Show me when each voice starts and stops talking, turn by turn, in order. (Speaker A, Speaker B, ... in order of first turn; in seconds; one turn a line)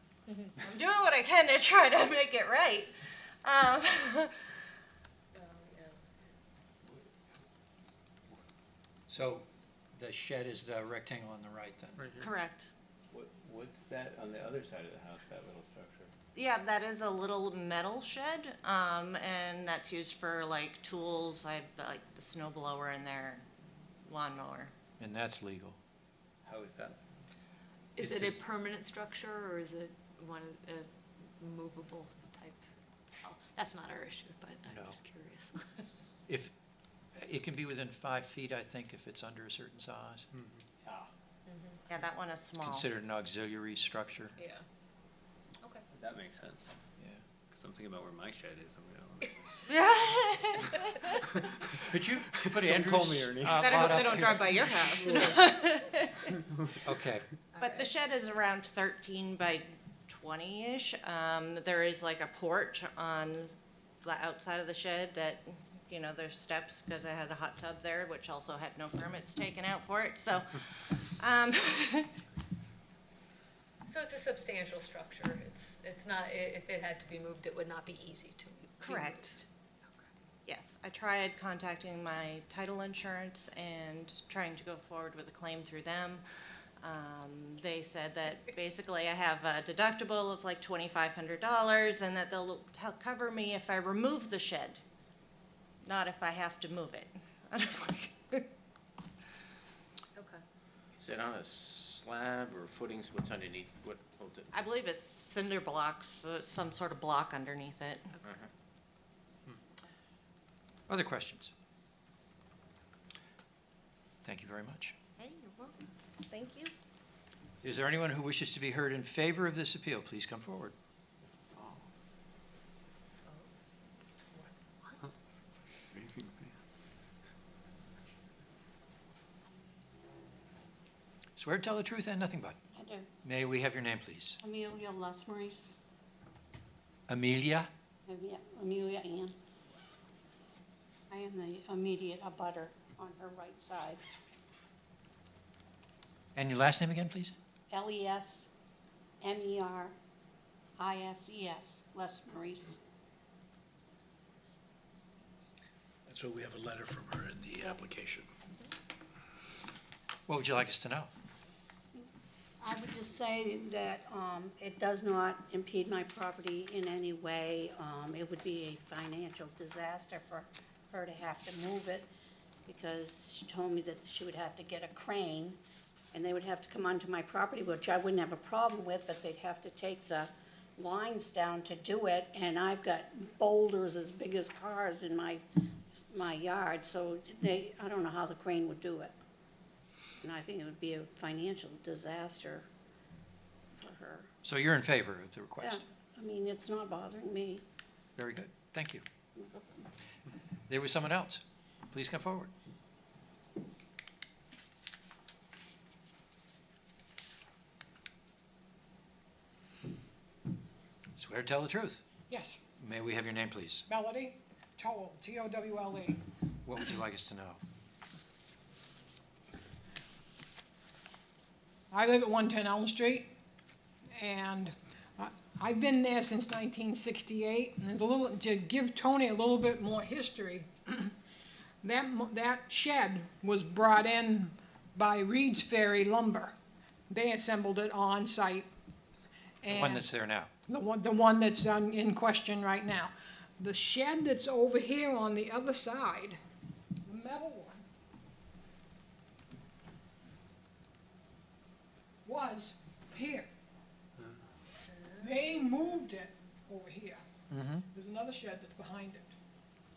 Speaker A: 0.4-2.9
Speaker A: 3.4-4.3
Speaker B: 9.1-9.4
Speaker B: 10.0-12.1
Speaker A: 12.2-12.7
Speaker C: 13.1-16.1
Speaker A: 16.3-23.4
Speaker A: 24.1-24.7
Speaker B: 25.0-25.8
Speaker C: 26.4-27.0
Speaker D: 27.9-30.9
Speaker B: 28.0-28.3
Speaker D: 31.4-32.6
Speaker D: 33.2-35.6
Speaker B: 34.7-35.0
Speaker B: 37.2-40.2
Speaker A: 41.9-42.9
Speaker B: 42.6-44.3
Speaker C: 45.9-46.7
Speaker C: 47.5-49.3
Speaker A: 49.6-51.3
Speaker B: 51.9-54.7
Speaker C: 52.4-53.7
Speaker A: 53.5-56.4
Speaker B: 56.8-57.2
Speaker A: 57.6-72.1
Speaker D: 73.9-79.1
Speaker A: 78.8-79.4
Speaker A: 80.5-86.2
Speaker A: 86.8-94.8
Speaker A: 95.8-98.5
Speaker E: 101.0-104.5
Speaker A: 104.5-108.1
Speaker B: 110.9-111.5
Speaker B: 114.2-114.9
Speaker A: 115.2-115.8
Speaker A: 116.3-116.7
Speaker B: 117.6-120.7
Speaker C: 121.5-121.8
Speaker C: 125.9-126.5
Speaker B: 131.4-132.6
Speaker F: 132.7-133.1
Speaker B: 133.2-134.4
Speaker F: 134.4-135.8
Speaker B: 137.1-137.7
Speaker F: 138.1-139.3
Speaker F: 141.1-144.0
Speaker B: 146.3-147.3
Speaker F: 147.7-148.5
Speaker F: 149.2-149.9
Speaker F: 150.8-152.8
Speaker G: 156.1-158.3
Speaker B: 160.3-161.1
Speaker F: 162.6-172.1
Speaker F: 172.7-175.6
Speaker F: 176.1-185.4
Speaker F: 186.1-189.1
Speaker F: 190.2-192.6
Speaker F: 193.8-194.3
Speaker B: 194.4-195.8
Speaker F: 195.6-197.6
Speaker B: 198.2-199.0
Speaker B: 200.7-202.5
Speaker B: 211.2-212.0
Speaker H: 212.3-212.6
Speaker B: 212.8-213.8
Speaker H: 213.9-216.2
Speaker B: 216.6-217.6
Speaker H: 221.9-223.3
Speaker H: 224.1-231.1
Speaker H: 231.8-236.5
Speaker H: 237.1-238.7
Speaker H: 239.6-240.1
Speaker B: 239.7-240.5
Speaker H: 240.7-246.4
Speaker H: 247.0-247.8
Speaker H: 252.2-253.5
Speaker H: 255.2-257.2
Speaker B: 257.5-257.9
Speaker H: 257.9-259.3